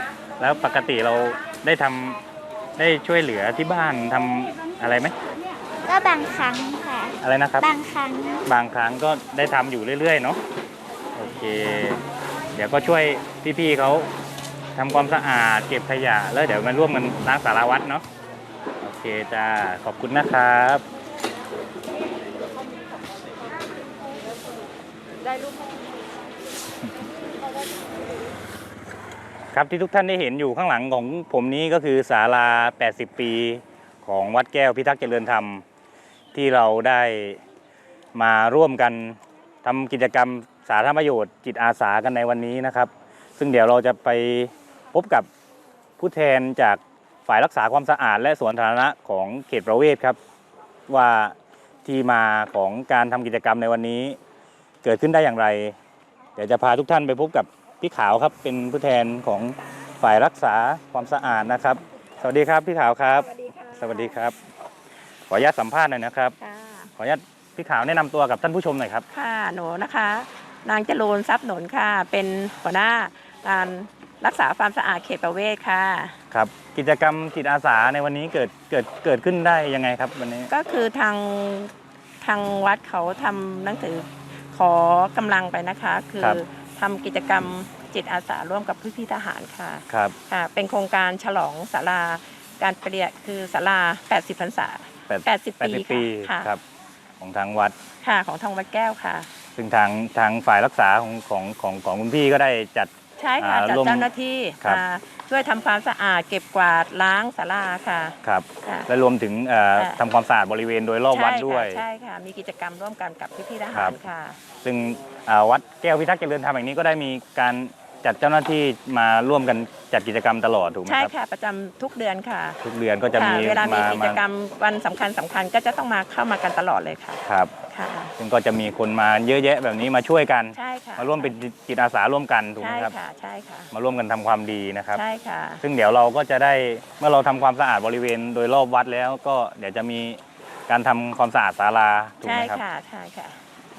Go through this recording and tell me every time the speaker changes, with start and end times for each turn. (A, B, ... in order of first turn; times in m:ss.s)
0:00.4-0:02.2 A
0:02.8-0:05.2 A
0:05.9-0:08.4 B
0:07.2-0:07.7 A
0:08.5-0:10.4 A
0:11.2-0:14.1 A
0:14.8-0:18.0 A
0:18.8-0:20.8 A
0:29.5-0:35.6 A
0:36.3-0:37.4 A
0:38.2-0:45.3 A
0:46.0-0:50.2 A
0:50.9-0:54.2 A
0:54.8-0:55.8 A
0:56.4-1:04.4 A
1:05.3-1:06.4 A
1:06.4-1:06.9 C
1:07.0-1:09.0 A
1:09.1-1:16.2 C
1:16.3-1:20.5 A
1:20.5-1:36.5 C
1:29.9-1:30.2 A
1:35.1-1:36.6 A
1:37.2-1:37.8 A
1:38.0-1:39.3 C
1:39.6-1:44.1 A
1:43.2-1:48.9 C
1:48.2-1:51.8 A
1:51.1-1:54.4 C
1:54.6-2:01.1 A
2:00.9-2:02.6 C
2:02.6-2:04.2 A
2:03.1-2:08.1 C
2:07.2-2:07.6 A
2:08.2-2:12.9 A
2:10.6-2:11.3 C
2:12.6-2:13.7 C
2:13.7-2:15.0 A
2:14.9-2:15.6 C
2:15.6-2:22.6 A
2:22.2-2:23.4 C